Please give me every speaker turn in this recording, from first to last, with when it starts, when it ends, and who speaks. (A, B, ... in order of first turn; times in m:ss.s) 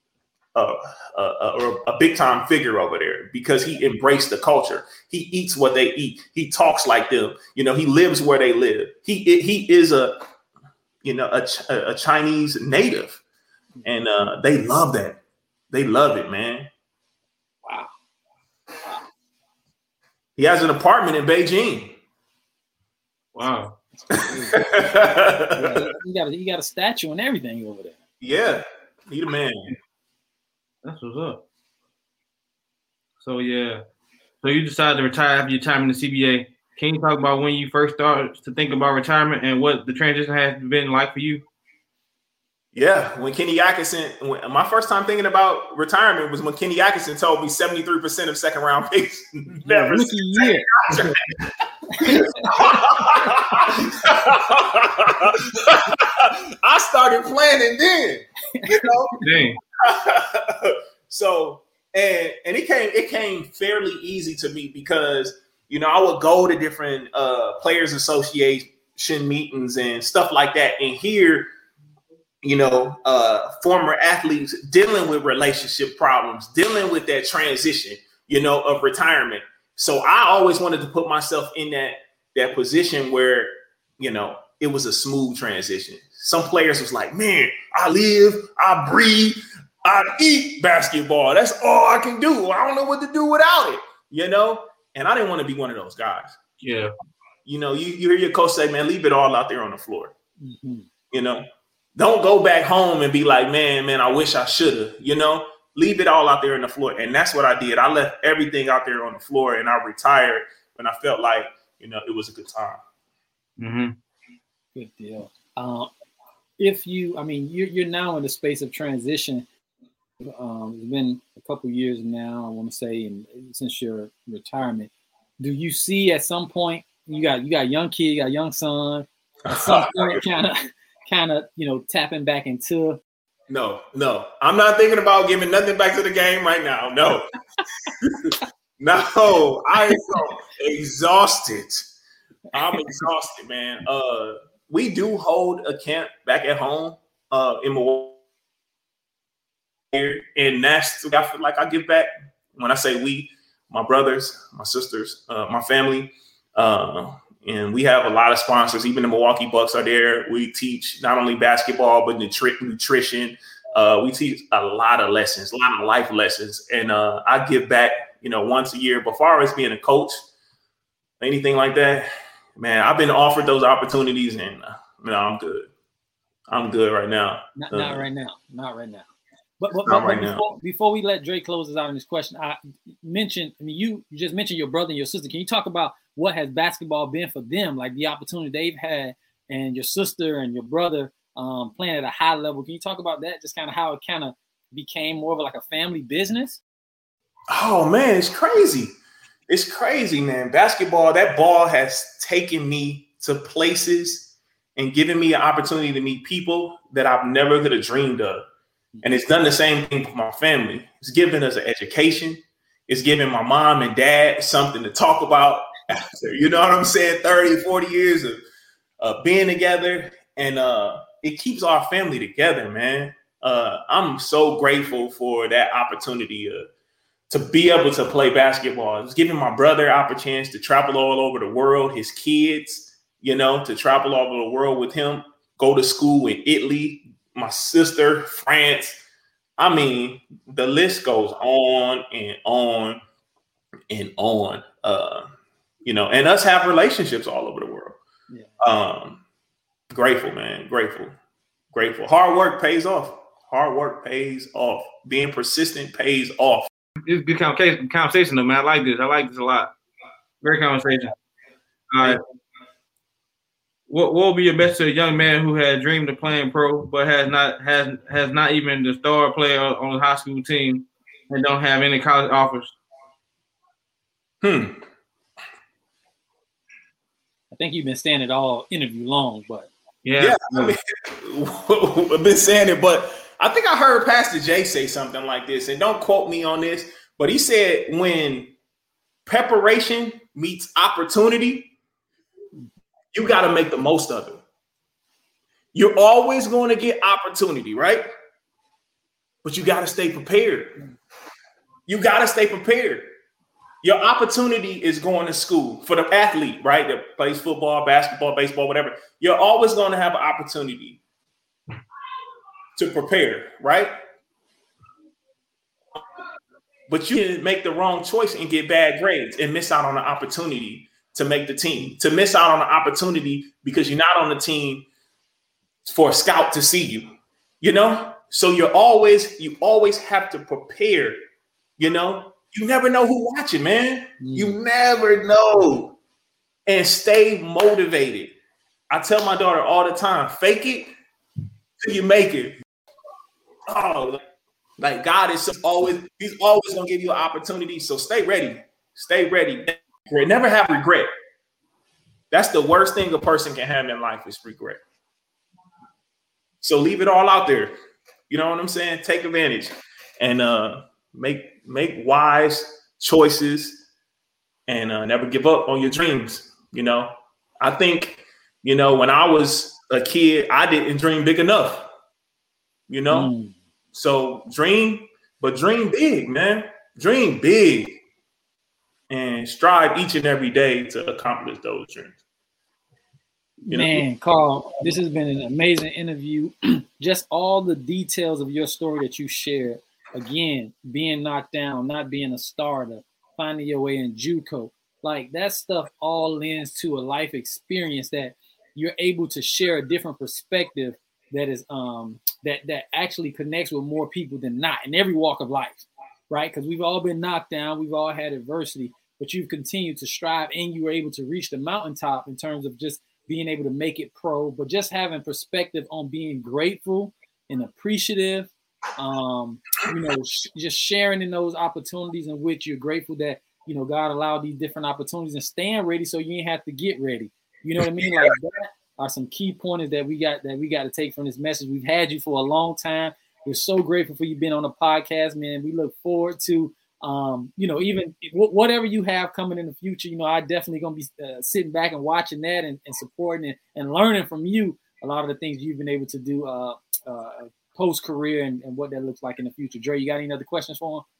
0:00.5-0:10.2 A
0:11.0-0:13.2 A
0:13.8-0:15.2 A
0:15.7-0:16.7 A
0:17.6-0:17.9 B
0:20.4-0:22.0 A
0:23.3-0:23.8 C
0:24.0-0:24.9 B
0:24.5-0:25.9 A
0:25.5-0:28.0 B
0:28.2-0:29.7 A
0:30.8-0:31.4 C
0:33.2-0:33.8 C
0:34.4-0:41.4 C
0:42.7-0:51.4 A
0:49.6-0:50.9 B
0:51.9-0:52.9 B
0:52.0-0:59.2 A
0:59.2-0:59.6 C
0:59.8-1:11.5 A
1:12.4-1:36.4 A
1:36.6-1:36.9 C
1:37.4-1:40.1 A
1:40.4-1:40.9 B
1:41.1-1:52.8 A
1:53.6-1:54.0 C
1:54.7-1:55.9 B
1:56.6-1:59.4 B
2:00.2-2:13.0 B
2:09.5-2:10.2 A
2:13.5-2:17.3 A
2:18.0-2:21.9 A
2:22.5-2:28.2 A
2:22.7-2:23.0 B
2:29.9-2:50.3 A
2:51.2-2:55.7 A
2:56.5-2:58.0 A
2:57.6-2:59.0 B
2:59.6-3:16.6 B
2:59.8-3:00.5 A
3:17.5-3:18.9 A
3:19.5-3:28.4 A
3:29.0-3:38.4 A
3:39.0-3:46.7 A
3:47.3-3:59.0 A
3:59.6-4:03.0 A
4:03.9-4:05.3 A
4:05.8-4:08.0 A
4:08.6-4:09.2 A
4:09.9-4:11.1 A
4:11.7-4:16.7 A
4:17.0-4:19.7 C
4:20.4-4:21.1 C
4:21.9-4:22.2 C
4:23.9-4:32.7 C
4:34.4-4:34.8 A
4:37.5-4:39.7 B
4:40.0-4:40.7 C
4:40.2-4:48.5 A
4:49.2-4:51.7 A
4:53.1-4:54.4 A
4:55.7-4:58.1 A
4:59.4-5:00.8 A
5:01.9-5:03.1 A
5:03.8-5:11.0 A
5:12.8-5:13.9 A
5:16.9-5:24.9 A
5:25.8-5:31.2 A
5:31.8-5:36.0 A
5:34.2-5:34.6 B
5:36.6-5:38.3 A
5:38.9-5:40.9 A
5:41.8-5:42.6 A
5:43.7-5:44.2 A
5:44.8-5:51.1 A
5:52.3-5:54.8 A
5:56.6-5:57.7 A
5:58.3-6:03.8 A
6:04.7-6:11.9 A
6:12.9-6:13.3 A
6:13.1-6:13.5 B
6:13.9-6:18.0 A
6:19.1-6:22.2 A
6:23.7-6:24.0 A
6:23.7-7:31.0 B
7:07.8-7:08.3 A